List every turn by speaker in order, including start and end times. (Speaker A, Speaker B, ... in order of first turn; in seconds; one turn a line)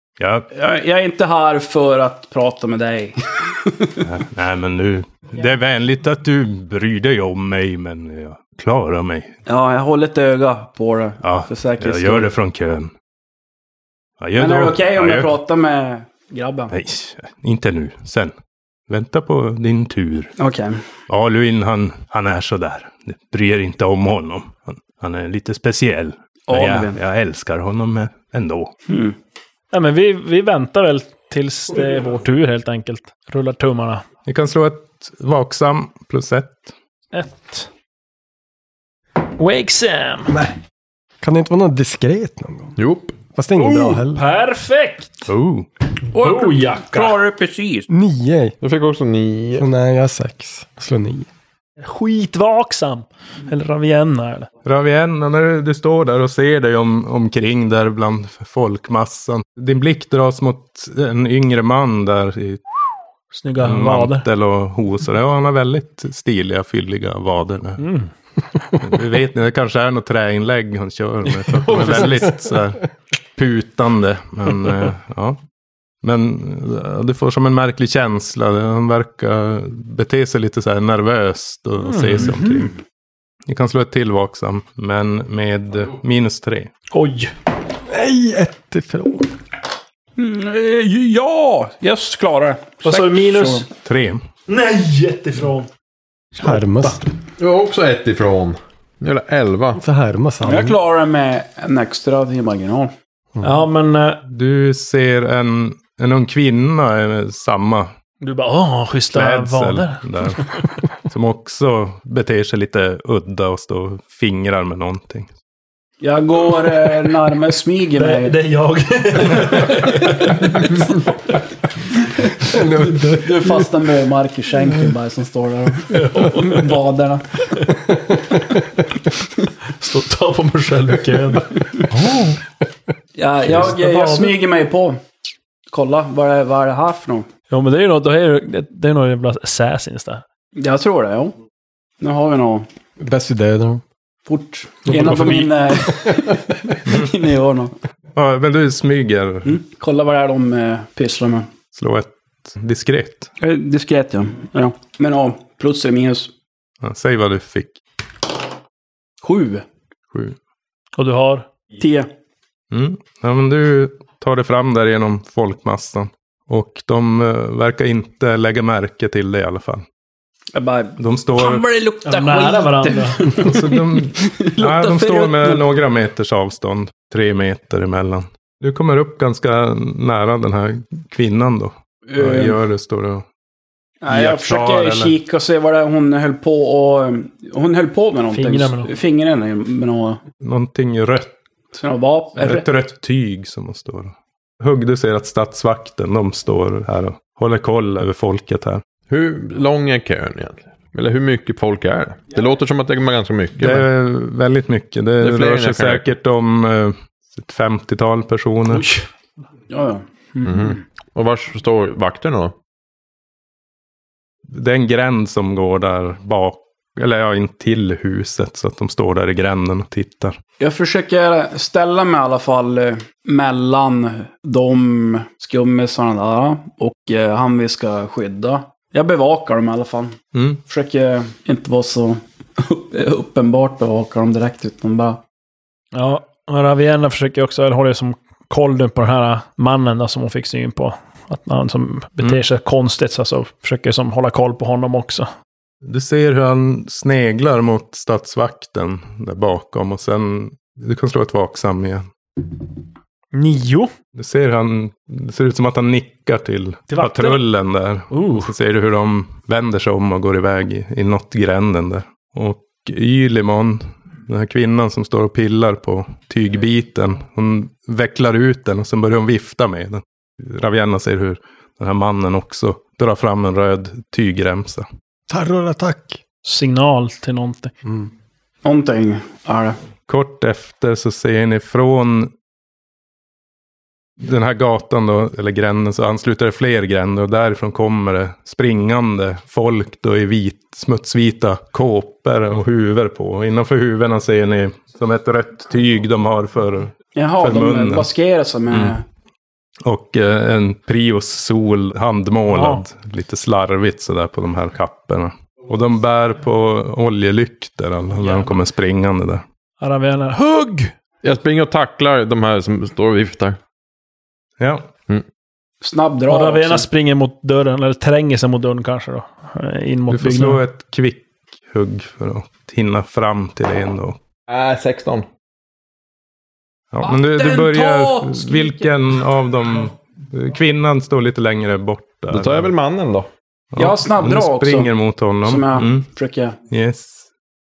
Speaker A: 0.2-0.5
Speaker B: 0.5-4.0
Speaker A: 4.0-9.3
Speaker B: 9.5-12.3
Speaker A: 11.2-12.9
Speaker A: 14.2-15.3
Speaker B: 14.3-16.7
Speaker A: 16.7-18.3
Speaker A: 18.9-20.3
Speaker B: 20.4-20.8
Speaker A: 21.1-28.7
Speaker B: 26.5-27.0
Speaker B: 28.9-29.1
Speaker C: 29.7-34.0
Speaker A: 34.2-36.7
Speaker C: 37.1-37.7
Speaker C: 39.2-40.4
Speaker D: 40.3-40.5
Speaker D: 41.2-42.8
Speaker E: 42.8-43.1
Speaker D: 43.3-44.2
Speaker C: 43.5-45.3
Speaker A: 45.3-45.7
Speaker C: 46.1-47.2
Speaker B: 46.1-47.9
Speaker D: 47.9-48.5
Speaker E: 48.6-49.7
Speaker D: 49.6-51.3
Speaker C: 51.8-54.5
Speaker A: 54.6-62.6
Speaker C: 63.3-64.2
Speaker A: 63.6-67.8
Speaker C: 67.8-68.1
Speaker A: 68.8-72.8
Speaker C: 71.3-72.2
Speaker D: 71.7-72.6
Speaker A: 73.3-75.4
Speaker A: 76.0-82.7
Speaker C: 81.8-82.5
Speaker A: 83.5-86.7
Speaker C: 86.9-87.3
Speaker D: 87.9-89.3
Speaker B: 90.2-93.6
Speaker C: 92.8-93.7
Speaker A: 93.8-94.2
Speaker C: 94.5-95.7
Speaker C: 96.3-97.0
Speaker D: 96.4-97.1
Speaker E: 97.4-99.8
Speaker D: 99.8-100.8
Speaker B: 100.4-102.9
Speaker C: 103.4-104.2
Speaker A: 104.2-107.9
Speaker C: 108.2-110.6
Speaker A: 109.1-110.5
Speaker A: 111.0-115.3
Speaker B: 116.0-118.3
Speaker C: 118.0-121.1
Speaker D: 122.4-123.7
Speaker B: 122.8-127.4
Speaker C: 125.9-126.8
Speaker C: 129.8-132.4
Speaker B: 133.2-135.0
Speaker C: 133.4-134.4
Speaker B: 135.7-137.3
Speaker C: 137.5-140.2
Speaker B: 140.6-141.3
Speaker B: 142.0-142.7
Speaker D: 143.0-143.8
Speaker B: 144.2-147.7
Speaker D: 144.9-145.5
Speaker C: 145.1-145.4
Speaker A: 148.1-149.6
Speaker B: 149.4-151.5
Speaker A: 151.7-153.3
Speaker B: 153.4-156.3
Speaker A: 156.8-157.8
Speaker B: 159.2-159.6
Speaker C: 160.9-161.5
Speaker B: 161.8-162.1
Speaker A: 162.7-169.8
Speaker B: 170.5-175.6
Speaker A: 171.0-171.6
Speaker C: 172.0-173.3
Speaker A: 173.3-183.2
Speaker B: 182.1-182.6
Speaker B: 184.0-190.2
Speaker A: 184.1-185.1
Speaker C: 188.3-188.9
Speaker A: 190.4-191.3
Speaker B: 191.7-192.7
Speaker A: 192.4-198.8
Speaker E: 199.1-203.9
Speaker A: 203.6-208.9
Speaker E: 205.2-206.0
Speaker B: 209.7-210.8
Speaker E: 210.4-212.5
Speaker A: 214.5-220.4
Speaker B: 220.6-235.2
Speaker A: 230.3-230.6
Speaker C: 235.9-245.3
Speaker A: 245.8-252.1
Speaker C: 253.3-253.9
Speaker A: 254.1-274.9
Speaker C: 256.9-257.4
Speaker C: 258.1-258.5
Speaker D: 275.3-276.2
Speaker C: 276.4-277.7
Speaker D: 277.8-278.1
Speaker B: 278.6-279.8
Speaker A: 280.1-282.3
Speaker A: 284.2-298.1
Speaker B: 297.1-299.0
Speaker A: 299.8-309.4
Speaker C: 302.5-302.8
Speaker C: 309.8-310.9
Speaker E: 311.2-313.6
Speaker A: 314.6-314.9
Speaker B: 315.8-316.9
Speaker C: 316.3-320.6
Speaker A: 320.1-324.2
Speaker E: 324.5-325.2
Speaker A: 326.9-332.7
Speaker B: 327.1-328.9
Speaker E: 332.3-333.3
Speaker A: 333.7-336.0
Speaker B: 333.8-334.9
Speaker B: 335.4-336.6
Speaker A: 336.7-337.2